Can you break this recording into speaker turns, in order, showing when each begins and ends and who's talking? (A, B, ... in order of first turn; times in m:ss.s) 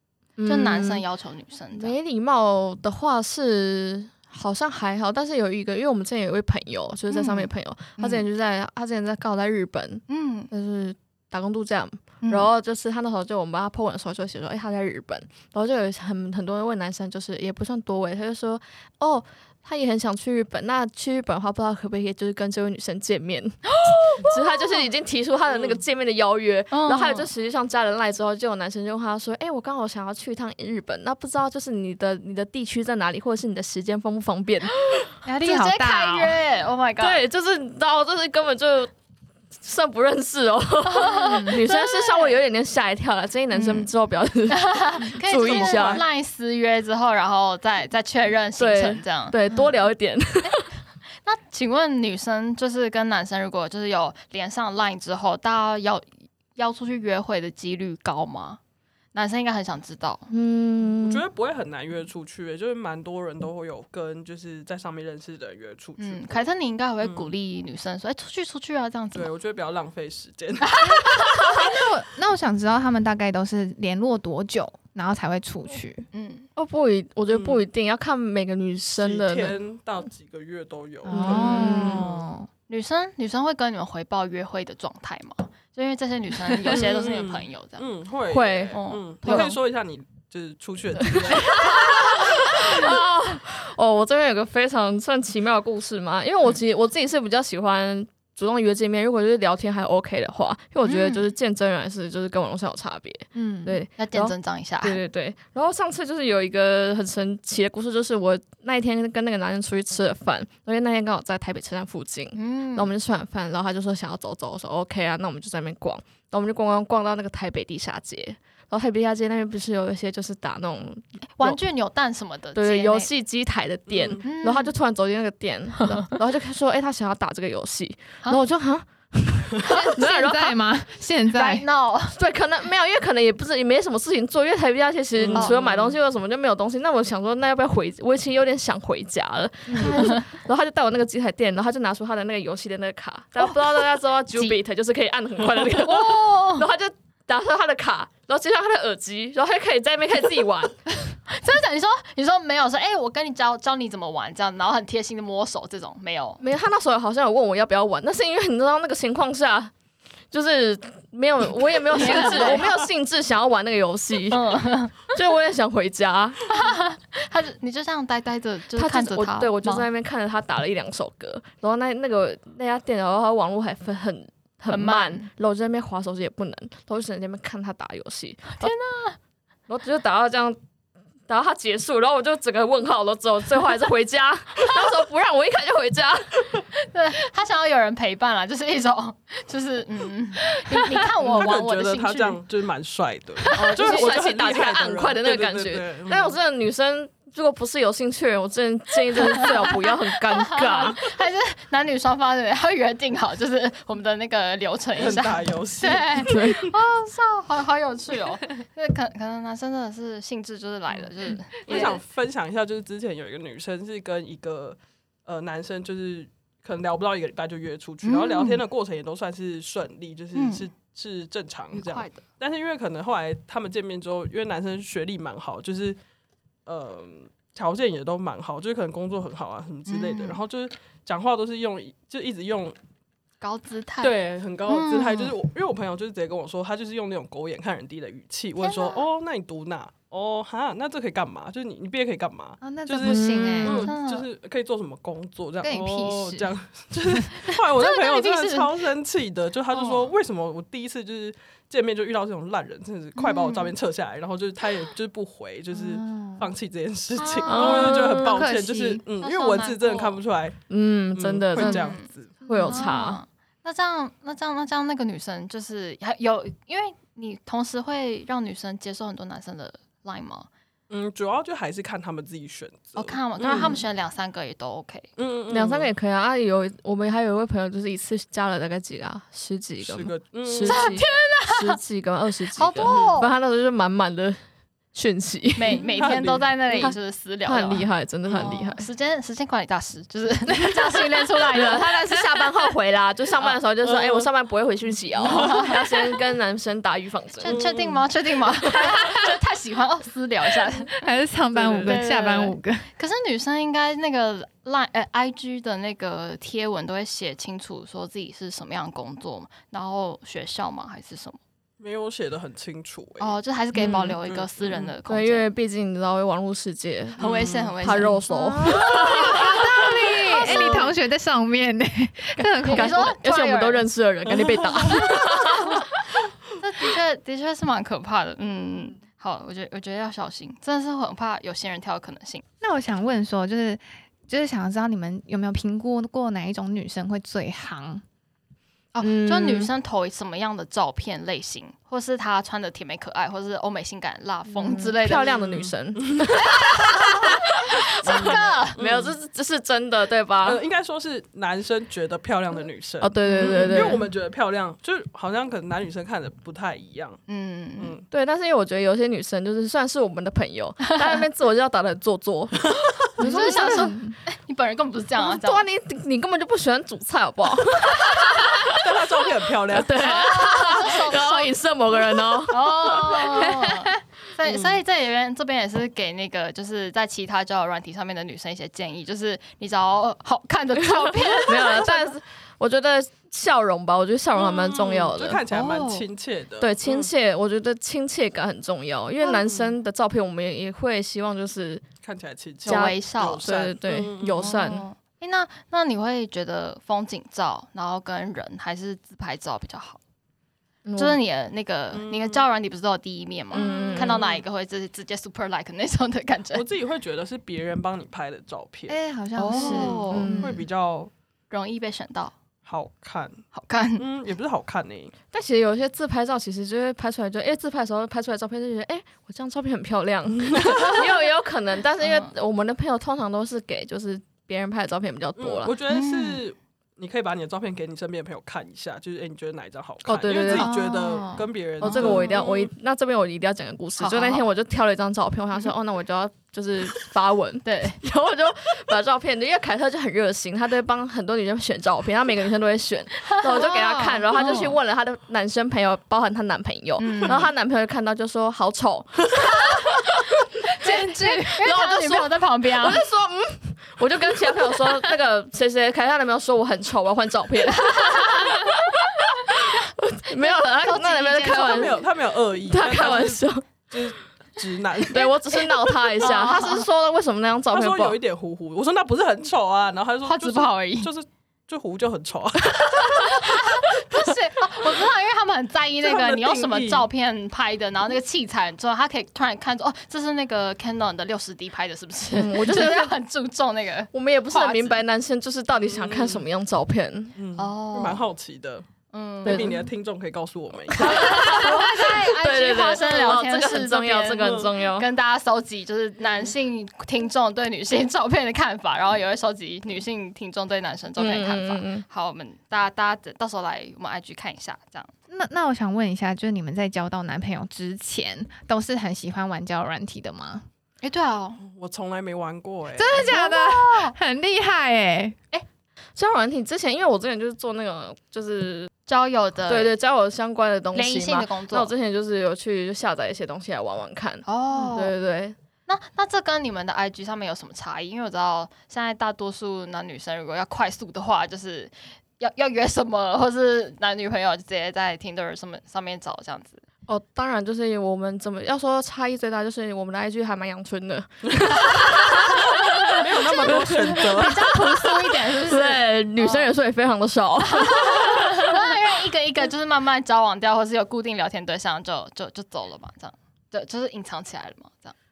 0:00.4-0:01.0 A
0:00.4-0:01.9 B
0:01.7-0:35.1 A
0:07.1-0:08.2 B
0:10.1-0:10.5 B
0:12.2-0:12.5 B
0:23.8-0:24.8 B
0:25.5-0:25.8 C
0:26.7-0:27.3 B
0:35.2-0:36.4 D
0:35.4-0:37.2 B
0:37.0-0:38.9 A
0:39.6-0:46.0 A
0:40.8-0:42.4 B
0:41.2-0:41.5 D
0:43.5-0:43.9 B
0:44.5-0:49.6 B
0:48.6-0:50.6 A
0:51.2-0:58.6 B
0:59.1-1:00.3 B
1:00.3-1:01.2 A
1:00.8-1:06.4 C
1:06.0-1:09.3 B
1:07.0-1:07.3 C
1:09.1-1:11.3 C
1:10.6-1:11.6 B
1:11.1-1:16.0 D
1:16.1-1:16.5 B
1:16.6-1:19.5 A
1:17.3-1:17.6 C
1:19.0-1:22.2 C
1:21.0-1:22.5 D
1:21.1-1:22.1 A
1:22.7-1:27.8 B
1:26.6-1:31.6 C
1:28.3-1:29.6 A
1:28.7-1:29.5 B
1:31.1-2:01.6 A
1:31.6-1:32.4 B
1:40.8-1:41.3 B
1:43.3-1:43.8 D
1:44.0-1:45.0 B
1:52.3-1:52.9 B
2:01.4-2:03.1 B
2:02.5-2:10.6 A
2:03.9-2:04.2 C
2:04.2-2:04.7 B
2:09.6-2:11.6 D
2:11.3-2:12.2 B
2:12.1-2:30.8 A
2:15.1-2:16.0 C
2:19.7-2:20.0 D
2:19.9-2:20.2 B
2:25.8-2:26.7 B
2:31.3-2:36.4 B
2:36.4-2:39.7 A
2:40.3-2:46.7 A
2:41.9-2:42.7 B
2:44.3-2:45.1 B
2:46.5-2:49.9 B
2:48.8-2:58.7 A
2:54.7-2:55.3 B
2:58.6-2:59.2 B
2:59.7-3:00.6 A
3:01.3-3:06.7 A
3:06.8-3:12.4 B
3:11.2-3:16.4 C
3:13.5-3:14.2 B
3:13.6-3:21.0 A
3:19.2-3:19.8 B
3:20.3-3:32.0 B
3:25.0-3:26.7 C
3:26.2-3:26.7 A
3:31.6-3:46.0 C
3:38.0-3:38.6 B
3:40.3-3:40.6 B
3:41.7-3:42.2 B
3:46.6-3:52.7 C
3:49.9-3:50.4 B
3:53.4-3:54.2 B
3:54.0-4:22.4 C
3:54.7-3:55.4 B
3:58.6-3:59.0 B
4:02.6-4:03.8 D
4:03.0-4:03.9 A
4:03.6-4:04.2 B
4:05.6-4:06.5 D
4:07.0-4:07.3 D
4:07.5-4:08.7 B
4:09.8-4:10.1 B
4:13.3-4:13.7 B
4:15.7-4:16.5 D
4:17.2-4:18.0 B
4:17.4-4:18.4 A
4:17.6-4:19.0 D
4:19.2-4:20.2 B
4:20.7-4:21.8 A
4:21.6-4:30.5 B
4:22.5-4:22.9 D
4:22.5-4:23.2 A
4:30.9-4:33.8 C
4:33.0-4:35.1 B
4:33.4-4:33.8 A
4:35.2-4:35.9 C
4:35.5-4:44.4 A
4:39.8-4:41.0 C
4:40.6-4:41.8 B
4:42.5-4:43.3 B
4:44.9-4:45.9 A
4:45.6-4:52.0 B
4:45.9-4:46.5 C
4:46.7-4:48.9 A
4:48.2-4:48.6 C
4:50.6-4:57.6 A
4:53.8-4:54.3 C
4:55.2-4:55.6 C
4:55.2-4:55.8 B
4:57.4-5:01.0 B
4:57.4-4:58.8 C
5:01.0-5:02.9 D
5:01.5-5:02.0 C
5:01.8-5:11.4 B
5:11.8-5:14.9 C
5:13.2-5:15.4 B
5:13.8-5:14.2 A
5:15.0-5:17.2 A
5:17.2-5:20.8 B
5:17.2-5:17.7 C
5:17.8-5:19.6 A
5:18.6-5:23.1 D
5:20.4-5:20.9 C
5:22.6-5:23.8 B
5:22.7-5:25.9 A
5:24.3-5:25.1 C
5:25.4-5:25.8 B
5:26.6-5:32.4 B
5:32.6-5:38.0 D
5:38.9-5:45.3 B
5:39.0-5:39.7 A
5:44.5-5:50.6 A
5:45.2-5:46.4 C
5:46.5-5:48.8 B
5:48.0-5:49.2 C
5:50.4-5:57.2 C
5:53.0-5:54.0 A
5:53.4-5:53.9 B
5:57.3-5:57.9 B
5:57.8-5:58.0 C
5:58.1-6:03.8 A
6:03.2-6:05.6 B
6:03.2-6:04.2 D
6:05.2-6:08.9 A
6:08.7-6:10.1 C
6:09.7-6:13.5 A
6:09.9-6:11.6 B
6:12.5-6:22.1 B
6:14.4-6:14.7 C
6:21.4-6:25.4 A
6:24.4-6:27.1 C
6:25.5-6:26.0 B
6:26.6-6:31.8 A
6:29.2-6:29.7 B
6:32.0-6:34.7 C
6:32.6-6:33.4 B
6:32.6-6:34.8 A
6:34.4-6:40.0 B
6:40.8-6:41.2 A
6:41.0-6:46.6 B
6:41.9-6:42.5 C
6:43.5-6:44.2 A
6:43.5-6:44.4 C
6:46.5-6:51.1 C
6:48.9-6:50.6 D
6:49.4-6:50.3 B
6:50.1-6:50.6 A
6:51.5-6:52.3 B
6:52.6-6:53.4 C
6:53.5-6:54.0 B
6:54.0-6:55.1 C
6:55.3-7:05.7 A
7:02.0-7:02.3 B
7:05.4-7:12.7 C
7:05.9-7:06.4 B
7:10.0-7:11.0 A
7:10.5-7:11.5 D
7:11.8-7:30.0 A
7:11.8-7:12.4 B
7:14.0-7:14.5 B
7:17.6-7:18.0 B
7:23.3-7:23.6 B
7:23.5-7:24.6 D
7:24.3-7:24.8 B
7:27.0-7:27.5 B
7:30.6-7:33.0 B
7:30.8-7:42.0 A
7:30.8-7:31.5 D
7:37.9-7:38.7 B
7:40.4-7:42.0 B
7:41.5-7:45.4 C
7:42.6-7:43.6 A
7:45.1-7:48.2 A
7:46.2-7:46.9 B
7:47.7-7:53.5 C
7:50.2-7:51.1 B
7:53.2-8:05.0 B
7:56.0-7:57.1 C
8:02.3-8:03.1 A
8:04.1-8:07.3 A
8:05.7-8:06.5 C
8:07.3-8:08.8 C
8:07.6-8:08.2 B
8:09.1-8:09.7 B
8:09.4-8:11.7 C
8:09.4-8:09.8 A
8:10.9-8:15.1 A
8:11.0-8:25.1 B
8:14.4-8:14.7 C
8:21.2-8:22.0 A
8:25.3-8:30.6 D
8:31.0-8:31.6 B
8:31.6-8:33.4 C
8:33.0-8:35.4 D
8:33.1-8:34.1 B
8:36.2-8:38.9 A
8:39.1-8:39.9 B
8:39.7-8:45.6 A
8:40.9-8:41.9 B
8:44.4-8:45.1 B
8:45.9-8:56.8 B
8:57.1-9:09.0 A
9:01.9-9:06.7 B
9:03.1-9:04.7 C
9:07.7-9:15.1 B